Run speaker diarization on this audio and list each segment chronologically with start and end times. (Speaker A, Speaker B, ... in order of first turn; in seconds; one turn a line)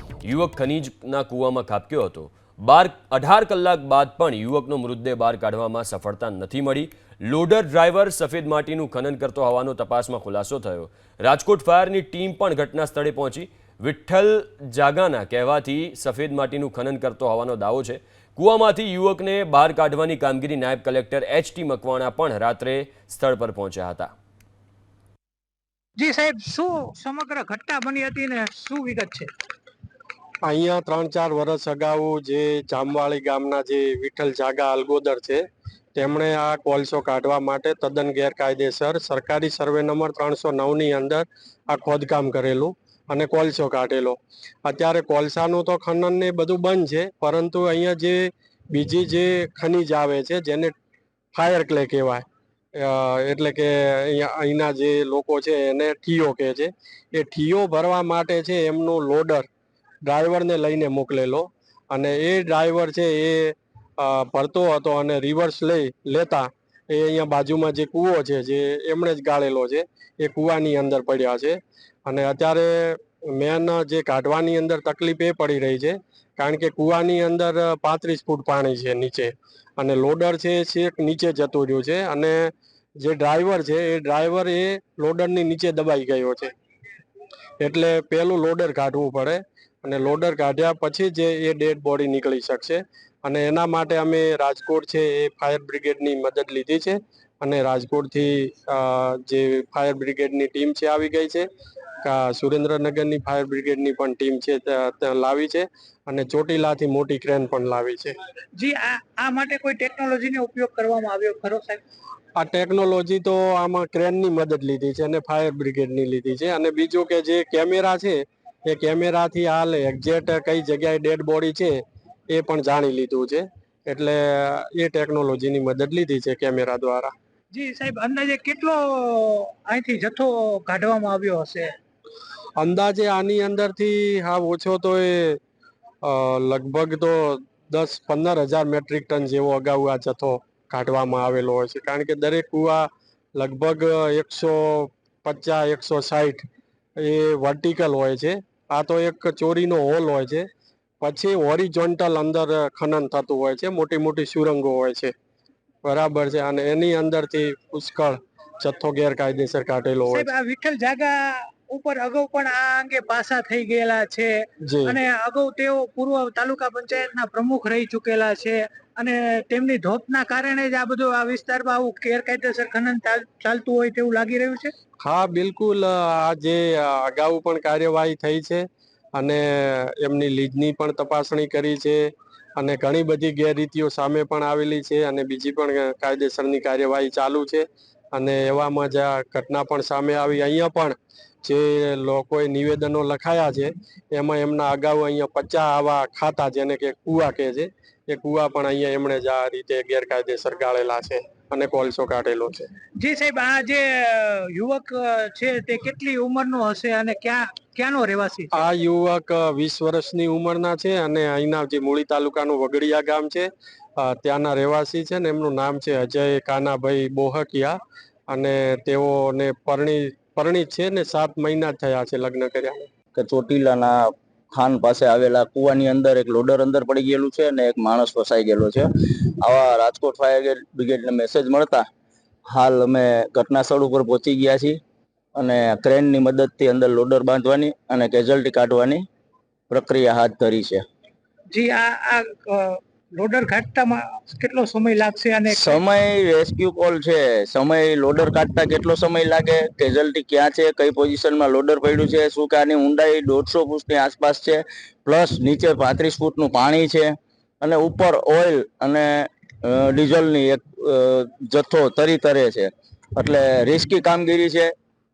Speaker A: 0.2-24.1
Speaker B: 26.0-29.3
Speaker C: 30.5-35.4
Speaker C: 36.0-50.7
Speaker C: 51.3-52.2
Speaker C: 52.8-59.5
Speaker C: 60.1-82.5
Speaker C: 83.0-86.5
Speaker C: 87.6-101.5
Speaker C: 102.0-108.1
Speaker B: 108.6-111.8
Speaker C: 112.4-121.8
Speaker C: 122.3-127.1
Speaker B: 127.5-131.7
Speaker C: 132.6-135.4
Speaker C: 136.0-146.4
Speaker C: 147.0-150.5
Speaker C: 151.0-155.1
Speaker C: 155.8-160.3
Speaker B: 160.1-164.3
Speaker C: 164.6-165.0
Speaker B: 164.9-174.7
Speaker C: 175.0-178.6
Speaker C: 179.2-182.0
Speaker C: 182.6-202.7
Speaker B: 203.0-208.5
Speaker C: 208.5-217.8
Speaker C: 218.3-222.9
Speaker D: 223.2-231.8
Speaker D: 232.5-234.8
Speaker D: 235.4-239.1
Speaker D: 239.7-240.8
Speaker B: 241.5-245.8
Speaker D: 245.5-264.7